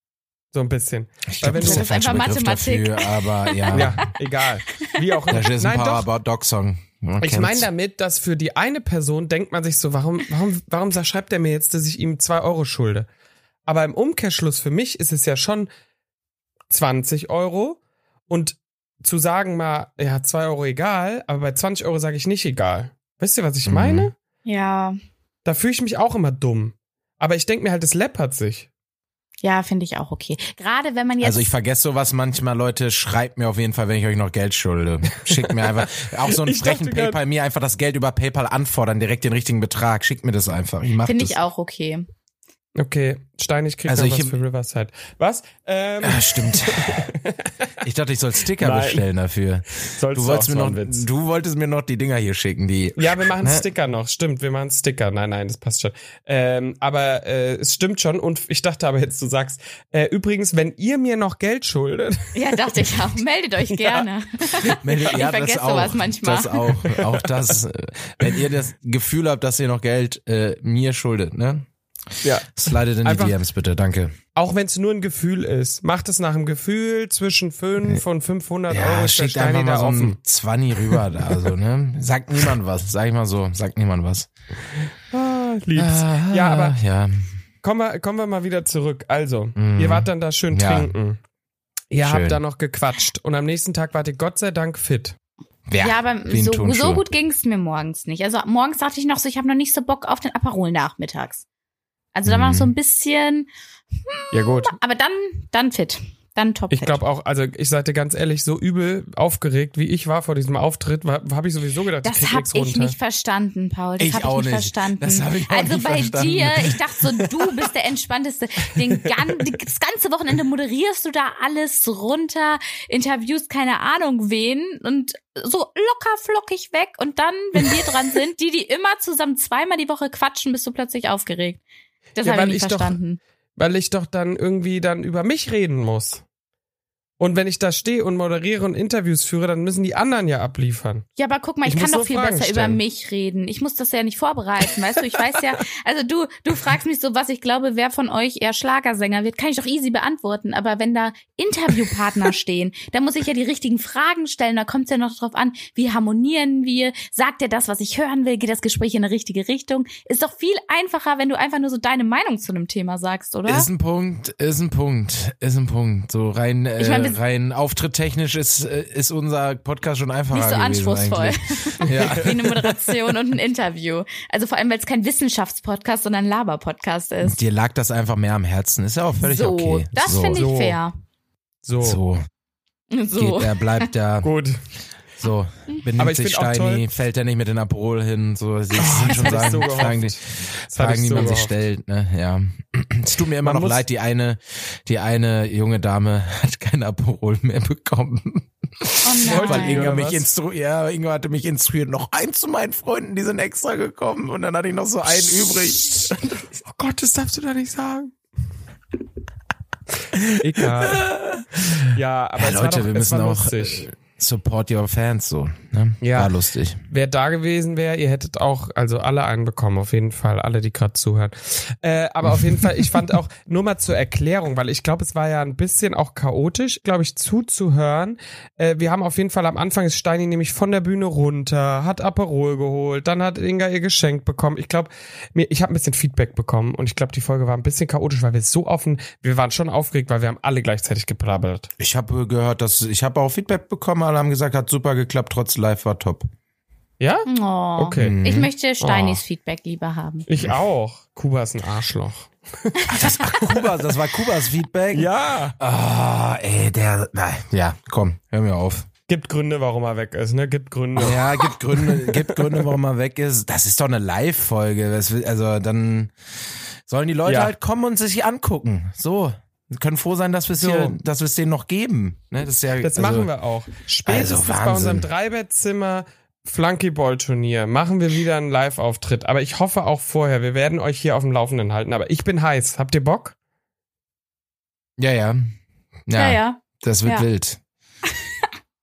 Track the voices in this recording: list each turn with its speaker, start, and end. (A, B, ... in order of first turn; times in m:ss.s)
0:00.5-0:01.9 A
0:01.3-0:04.1 B
0:01.5-0:03.9 C
0:03.7-0:06.1 A
0:05.3-0:07.7 B
0:07.2-0:13.1 A
0:13.7-0:15.7 A
0:16.7-0:24.1 A
0:23.7-0:24.1 B
0:24.4-0:25.0 C
0:25.4-0:28.7 A
0:29.4-0:31.5 C
0:31.2-0:41.4 B
0:35.1-0:37.2 A
0:41.0-0:42.1 C
0:42.8-0:47.7 A
0:43.9-0:44.4 B
0:46.0-0:47.1 B
0:47.8-0:53.7 B
0:48.6-0:49.1 A
0:49.8-0:51.0 A
0:53.0-1:02.3 A
1:02.3-1:06.7 C
1:03.7-1:04.1 A
1:04.6-1:11.7 B
1:06.9-1:07.5 A
1:12.2-1:13.3 A
1:12.5-1:14.2 B
1:14.4-1:20.2 A
1:18.7-1:24.3 B
1:20.9-1:21.5 A
1:25.1-1:26.8 A
1:25.8-1:27.1 B
1:27.6-1:31.2 A
1:29.6-1:30.9 B
1:31.9-1:35.2 A
1:32.0-1:32.4 B
1:35.7-1:37.0 B
1:35.8-1:41.4 C
1:42.1-1:47.0 C
1:42.3-1:42.7 B
1:44.3-1:44.8 A
1:46.7-1:53.0 A
1:52.0-2:11.6 C
1:54.0-1:57.5 B
2:12.2-2:13.2 C
2:12.2-2:13.0 A
2:13.6-2:16.2 A
2:17.2-2:21.0 A
2:21.2-2:43.7 C
2:21.7-2:22.8 A
2:43.5-2:52.8 B
2:46.8-2:47.2 C
2:50.3-2:57.4 C
2:57.2-3:00.4 B
2:59.2-3:00.9 C
3:00.3-3:00.8 A
3:01.6-3:02.0 A
3:01.8-3:02.2 B
3:02.9-3:03.9 C
3:03.2-3:04.3 B
3:04.2-3:04.6 A
3:05.2-3:26.2 B
3:06.0-3:06.8 A
3:08.8-3:11.5 A
3:09.2-3:09.8 C
3:13.4-3:13.8 A
3:19.0-3:20.0 C
3:19.3-3:20.3 A
3:26.6-3:28.1 A
3:30.1-3:36.8 B
3:30.4-3:31.1 A
3:31.9-3:33.9 A
3:36.0-3:36.3 A
3:36.9-4:01.7 A
3:42.2-3:42.9 B
4:01.8-4:06.3 B
4:07.0-4:08.2 A
4:07.3-4:10.3 C
4:08.0-4:08.5 B
4:08.8-4:09.2 A
4:10.3-4:12.9 A
4:12.9-4:18.9 B
4:12.9-4:13.5 C
4:14.9-4:15.6 A
4:19.1-4:22.8 A
4:21.0-4:26.1 B
4:26.9-4:33.3 B
4:27.3-4:27.5 A
4:30.6-4:31.0 A
4:32.8-4:43.4 A
4:34.1-4:35.1 B
4:45.0-4:45.5 B
4:46.1-4:47.6 B
4:46.1-4:47.3 C